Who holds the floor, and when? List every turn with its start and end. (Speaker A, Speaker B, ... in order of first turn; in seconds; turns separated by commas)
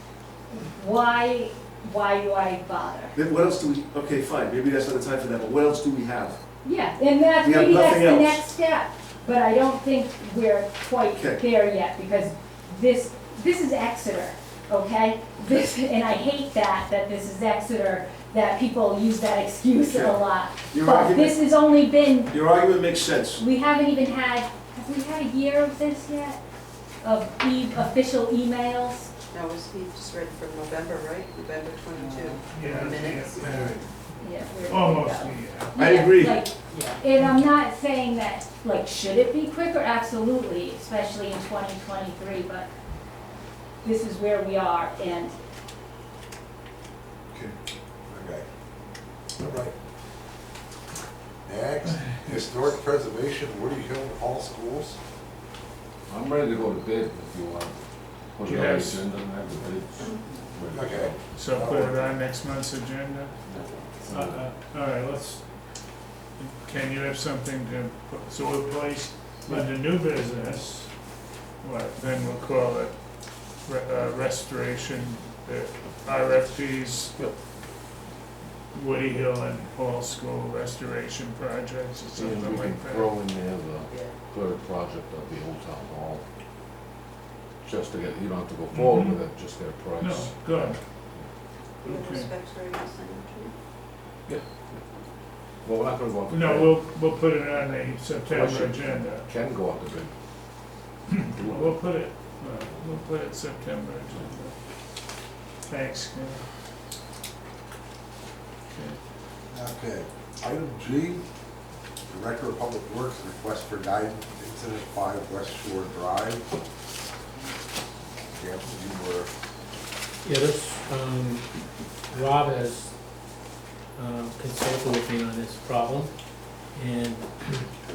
Speaker A: 0.5-3.2, Speaker B: 3.1-6.4, Speaker A: 6.6-22.5, Speaker B: 7.4-8.5, Speaker B: 11.2-11.4, Speaker B: 19.8-21.6, Speaker B: 22.3-23.4, Speaker A: 23.3-26.4, Speaker A: 27.0-29.1, Speaker C: 29.3-33.9, Speaker D: 32.5-33.9, Speaker A: 34.2-42.7, Speaker D: 34.6-35.8, Speaker B: 35.8-36.5, Speaker A: 43.8-45.4, Speaker E: 48.1-48.5, Speaker E: 49.4-49.7, Speaker E: 51.5-55.0, Speaker F: 56.1-57.7, Speaker F: 58.4-61.7, Speaker D: 58.4-59.0, Speaker E: 60.7-62.1, Speaker D: 61.3-63.4, Speaker F: 63.5-64.4, Speaker C: 63.5-63.9, Speaker D: 64.1-65.8, Speaker D: 66.4-77.2, Speaker D: 78.7-83.1, Speaker F: 82.1-86.2, Speaker C: 83.9-84.2, Speaker F: 87.6-91.2, Speaker D: 88.7-89.3, Speaker D: 90.0-90.8, Speaker C: 91.8-93.5, Speaker D: 91.8-92.3, Speaker F: 94.3-94.8, Speaker F: 95.6-96.8, Speaker D: 96.3-99.3, Speaker F: 98.3-100.1, Speaker D: 101.1-104.6, Speaker F: 101.3-101.8, Speaker D: 105.7-106.5, Speaker D: 108.7-109.0, Speaker E: 109.5-111.2, Speaker E: 112.1-116.4, Speaker E: 118.3-119.3, Speaker G: 120.2-121.5, Speaker G: 122.1-122.9, Speaker G: 124.0-127.5